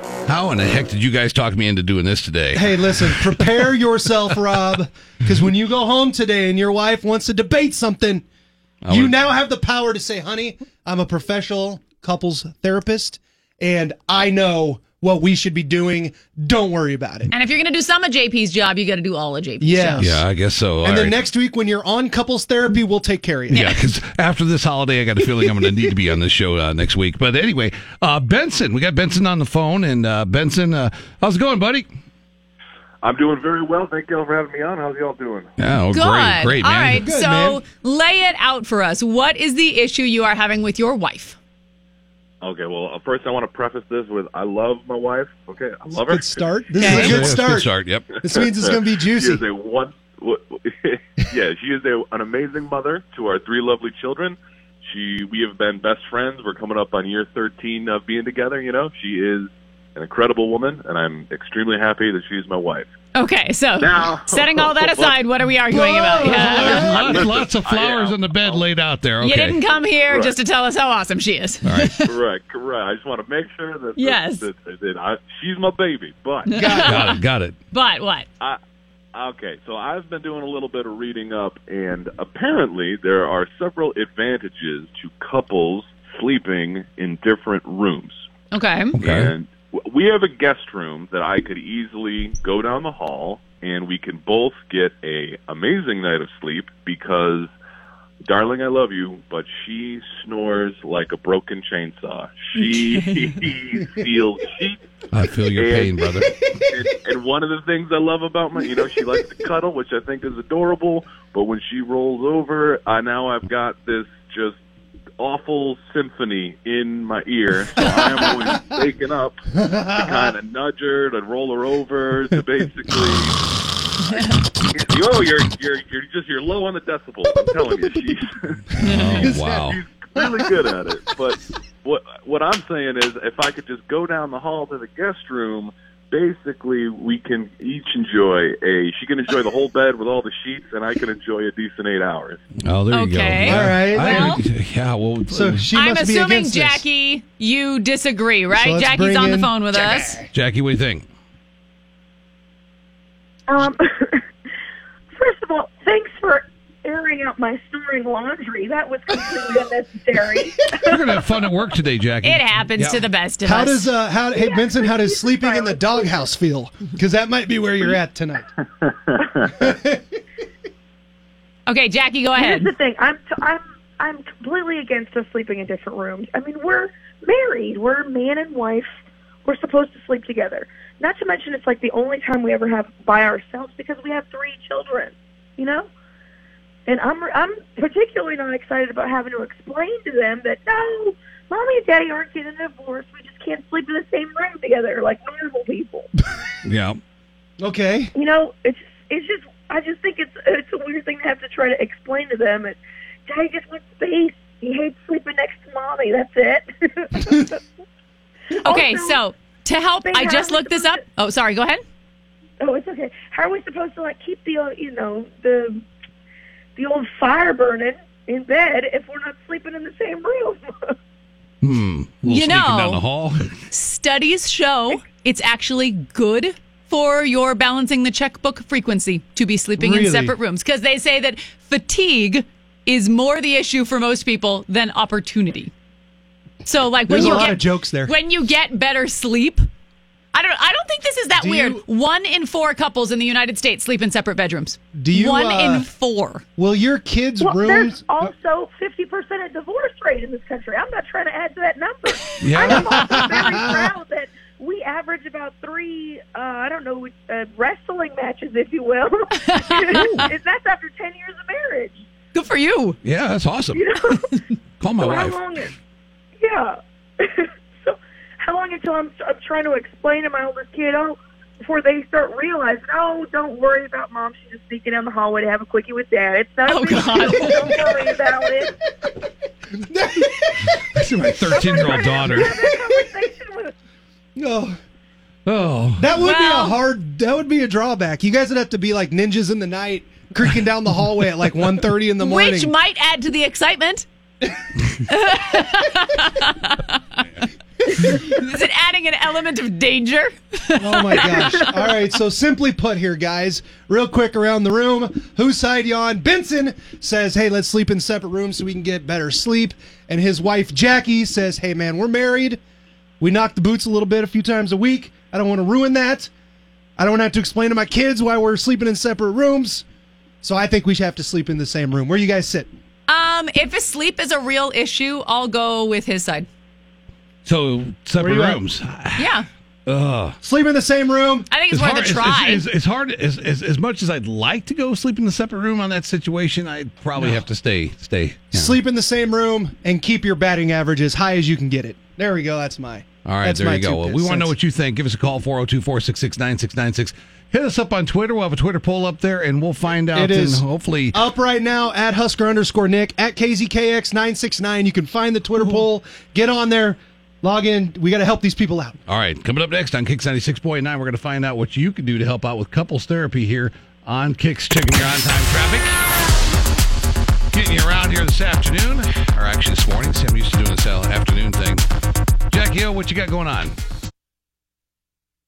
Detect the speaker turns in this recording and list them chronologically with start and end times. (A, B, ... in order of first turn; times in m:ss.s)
0:00.3-0:03.2 A
0:02.5-0:08.2 B
0:08.8-0:09.2 A
0:08.9-0:17.3 B
0:17.3-0:20.1 C
0:19.6-0:20.2 B
0:20.0-0:21.2 A
0:20.8-0:23.7 B
0:23.5-0:23.8 C
0:23.5-0:31.9 A
0:33.0-0:35.5 D
0:35.6-0:37.0 A
0:35.9-0:41.4 C
0:36.9-0:37.6 B
0:42.4-0:46.5 D
0:46.0-0:49.4 B
0:46.7-0:47.2 C
0:46.9-0:48.1 A
0:48.1-1:02.9 D
1:03.1-1:06.9 C
1:03.8-1:05.2 D
1:05.7-1:07.0 B
1:06.2-1:08.7 D
1:06.3-1:09.6 A
1:09.2-1:12.1 C
1:10.0-1:10.4 D
1:11.6-1:12.0 A
1:12.0-1:17.0 D
1:14.0-1:14.5 C
1:16.5-1:17.2 C
1:16.6-1:17.0 B
1:16.8-1:17.6 A
1:17.7-1:18.3 C
1:19.1-1:28.2 D
1:28.5-1:29.0 C
1:29.0-1:29.3 A
1:29.0-1:37.5 D
1:38.2-1:44.8 D
1:45.1-1:46.5 A
1:45.5-1:46.1 D
1:46.2-1:46.8 B
1:46.7-1:54.6 D
1:48.6-1:49.2 B
1:55.2-2:03.4 D
1:57.8-1:58.8 B
1:59.6-2:00.3 B
2:04.7-2:08.7 D
2:07.2-2:08.2 B
2:08.8-2:10.8 B
2:08.8-2:09.3 C
2:08.8-2:09.8 A
2:09.4-2:22.4 D
2:22.6-2:25.7 A
2:22.9-2:24.4 C
2:23.4-2:24.4 B
2:25.3-2:26.8 B
2:25.7-2:30.2 C
2:28.5-2:30.2 B
2:30.3-2:31.0 A
2:33.5-2:34.2 E
2:35.1-2:41.2 E
2:40.8-2:43.0 A
2:42.2-2:43.9 C
2:43.4-2:48.5 B
2:44.4-2:46.2 E
2:49.5-2:50.0 B
2:51.7-2:52.7 C
2:52.4-2:58.9 E
2:59.4-3:05.9 E
3:06.9-3:16.1 E
3:16.6-3:17.0 A
3:17.6-3:18.1 B
3:18.1-3:27.6 E
3:28.5-3:29.2 E
3:28.6-3:31.8 C
3:30.0-3:31.0 E
3:32.6-3:35.8 E
3:36.8-3:41.0 E
3:41.6-3:43.4 A
3:42.2-3:43.0 C
3:43.7-3:55.7 C
3:49.8-3:50.4 B
3:56.6-3:59.6 C
3:57.1-3:58.2 B
4:00.3-4:06.4 C
4:01.4-4:01.8 B
4:05.0-4:05.9 B
4:06.6-4:08.3 B
4:07.4-4:22.0 E
4:12.4-4:13.2 A
4:12.6-4:13.6 B
4:19.5-4:20.2 C
4:20.0-4:20.2 A
4:22.3-4:23.0 C
4:23.0-4:23.9 A
4:23.7-4:24.2 E
4:24.8-4:25.4 A
4:25.0-4:25.7 E
4:26.4-4:38.7 E
4:36.7-4:37.8 C
4:39.8-4:40.7 B
4:40.6-4:42.6 A
4:41.5-4:43.7 E
4:42.2-4:42.9 B
4:44.4-4:44.8 B
4:45.5-4:46.1 A
4:46.0-4:52.7 B
4:46.2-4:46.8 C
4:52.2-4:54.1 C
4:55.1-4:57.2 C
4:57.9-5:01.9 C
5:00.8-5:12.6 B
5:13.2-5:16.3 B
5:17.0-5:19.8 B
5:20.4-5:22.7 B
5:23.1-5:26.5 C
5:27.5-5:29.3 A
5:28.2-5:28.6 B
5:29.2-5:29.4 C
5:29.9-5:30.4 A
5:30.4-5:31.5 B
5:31.5-5:32.6 C
5:31.7-5:38.8 A
5:38.5-5:44.6 B
5:43.3-5:51.2 A
5:50.1-5:59.0 B
5:59.1-6:06.0 A
6:07.5-6:11.8 A
6:12.5-6:13.8 A